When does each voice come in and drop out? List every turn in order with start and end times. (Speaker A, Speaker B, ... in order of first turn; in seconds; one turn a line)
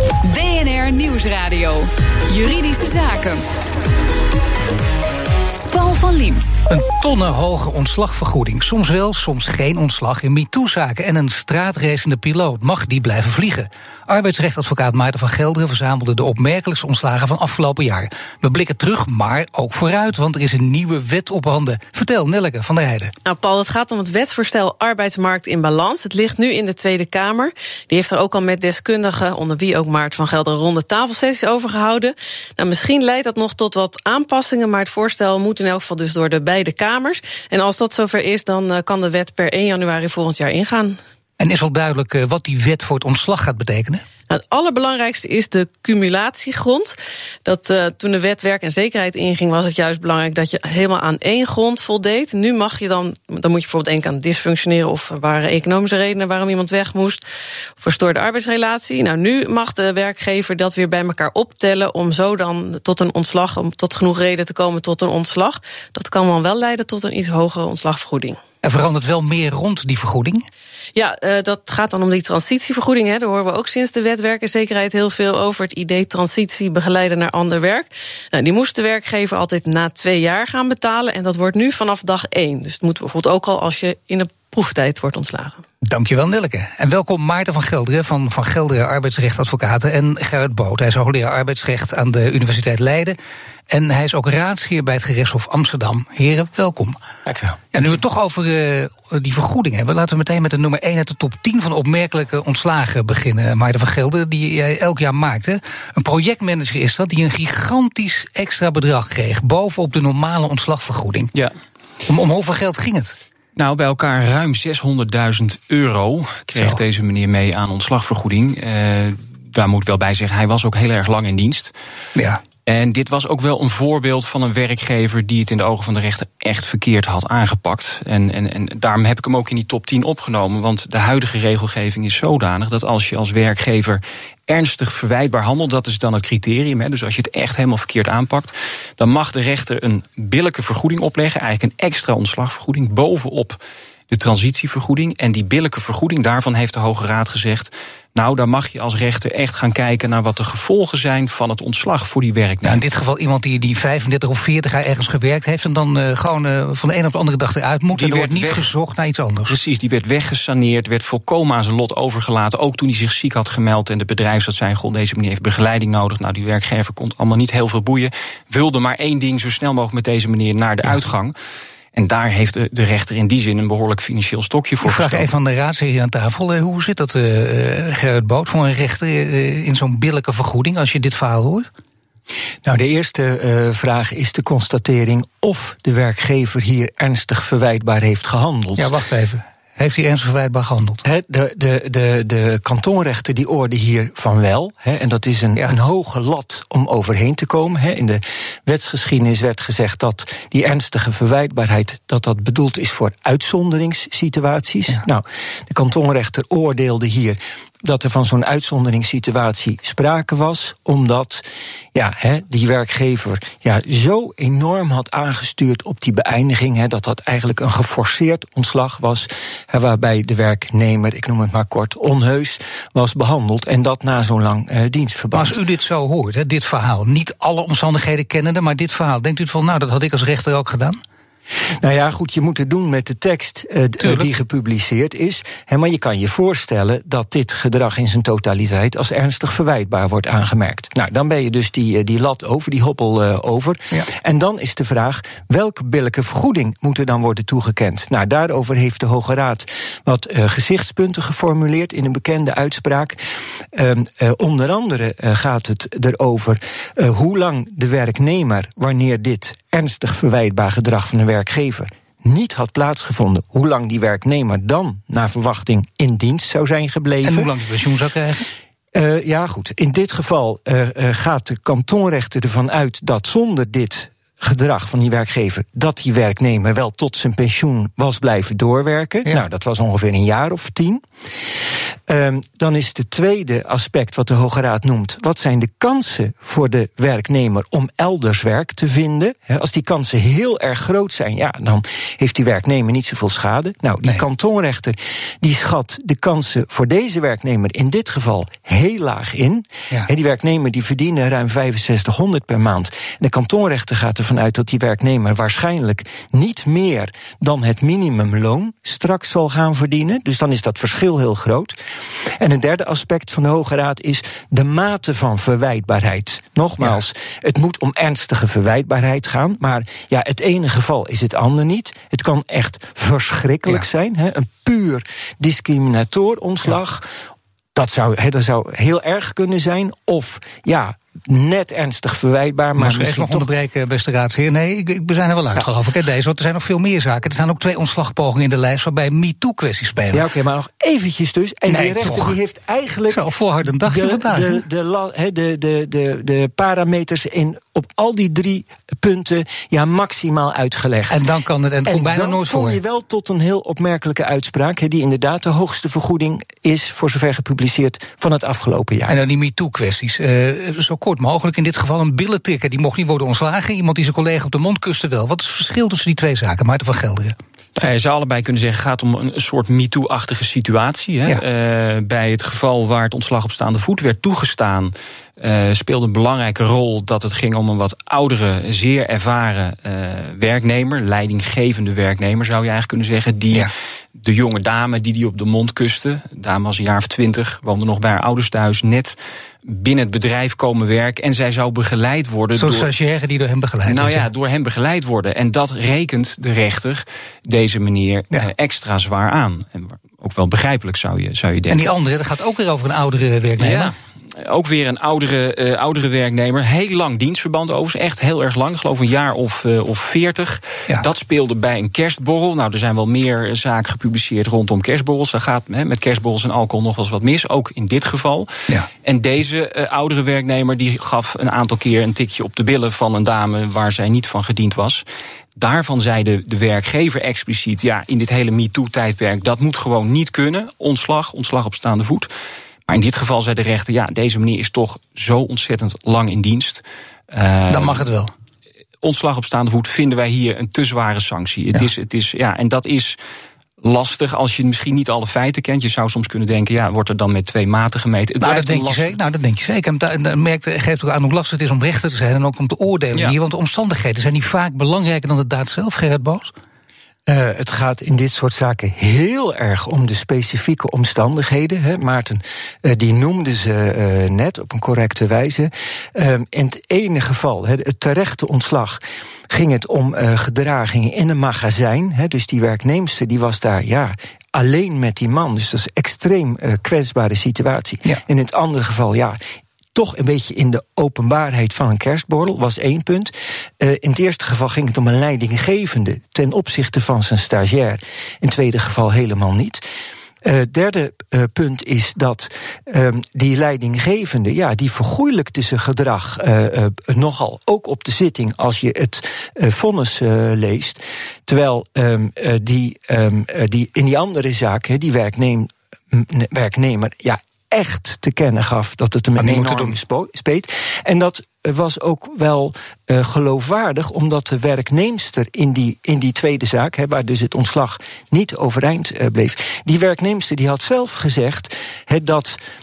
Speaker A: 0.2-3.5
Speaker A: 5.7-6.6
Speaker B: 6.7-23.1
Speaker C: 23.2-41.0
Speaker B: 41.4-44.0
Speaker C: 44.3-46.9
Speaker C: 47.5-57.2
Speaker C: 57.8-68.4
Speaker B: 68.6-70.5
Speaker C: 70.9-85.6
Speaker B: 85.8-93.2
Speaker B: 93.7-97.0
Speaker B: 97.7-111.3
Speaker B: 112.1-113.2
Speaker D: 113.5-121.7
Speaker B: 122.2-122.4
Speaker D: 122.7-143.6
Speaker D: 144.1-152.8
Speaker B: 152.6-159.6
Speaker D: 157.9-158.7
Speaker D: 159.5-171.3
Speaker D: 171.9-175.3
Speaker B: 174.8-181.7
Speaker E: 182.6-189.0
Speaker B: 188.8-191.0
Speaker E: 191.0-225.6
Speaker B: 225.3-231.0
Speaker E: 231.8-253.2
Speaker B: 234.0-234.3
Speaker E: 253.7-267.5
Speaker B: 267.2-268.4
Speaker E: 268.9-281.0
Speaker E: 282.1-311.7
Speaker E: 312.2-327.1
Speaker E: 327.7-333.5
Speaker B: 332.8-340.2
Speaker E: 340.1-351.2
Speaker B: 341.7-342.4
Speaker B: 343.1-344.6
Speaker B: 351.1-352.8
Speaker E: 351.9-359.2
Speaker B: 359.1-367.4
Speaker D: 367.8-392.9
Speaker B: 392.6-394.2
Speaker D: 393.9-401.8
Speaker B: 401.7-403.9
Speaker D: 403.6-425.0
Speaker D: 425.6-432.3
Speaker D: 432.9-438.1
Speaker B: 437.7-438.3
Speaker D: 439.0-443.2
Speaker D: 443.8-449.2
Speaker B: 448.4-456.5
Speaker E: 457.3-479.4
Speaker E: 479.9-489.8
Speaker E: 490.4-522.6
Speaker B: 509.4-510.0